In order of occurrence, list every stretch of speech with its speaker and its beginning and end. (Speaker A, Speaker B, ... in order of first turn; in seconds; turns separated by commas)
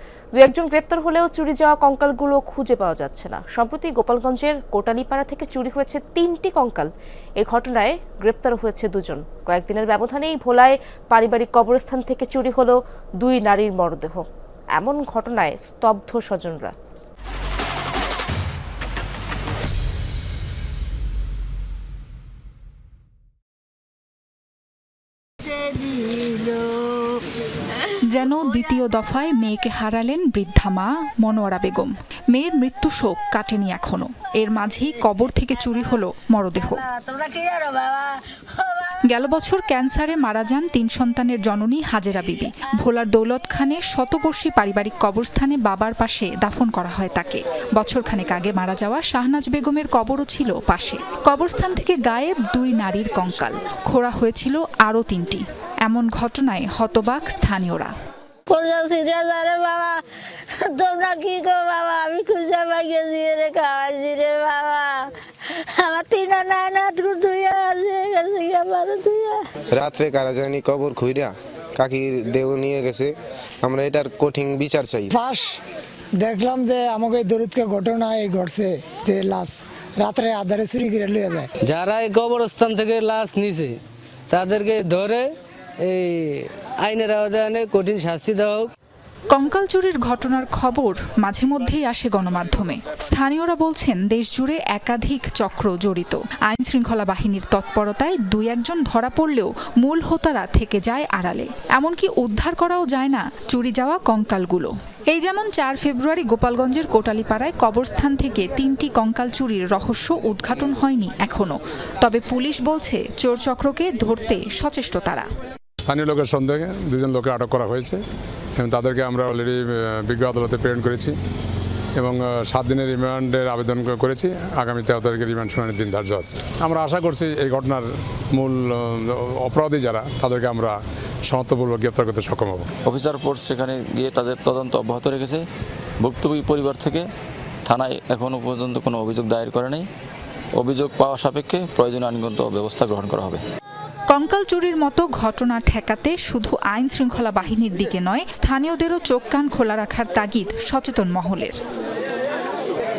Speaker A: 0.3-16.7, Speaker B: 25.5-26.6, Speaker C: 28.1-36.9, Speaker B: 36.7-39.0, Speaker C: 39.0-57.9, Speaker B: 58.5-60.0, Speaker B: 60.5-65.1, Speaker B: 65.8-69.5, Speaker D: 69.7-75.1, Speaker E: 75.1-75.6, Speaker E: 76.2-81.5, Speaker F: 81.6-83.8, Speaker F: 84.3-85.3, Speaker F: 85.8-88.7, Speaker C: 89.3-115.3, Speaker G: 115.8-118.0, Speaker G: 118.6-121.2, Speaker G: 122.0-130.8, Speaker G: 131.3-132.7, Speaker H: 132.8-135.4, Speaker H: 136.0-137.1, Speaker H: 137.7-139.8, Speaker H: 140.6-143.4, Speaker C: 144.1-151.6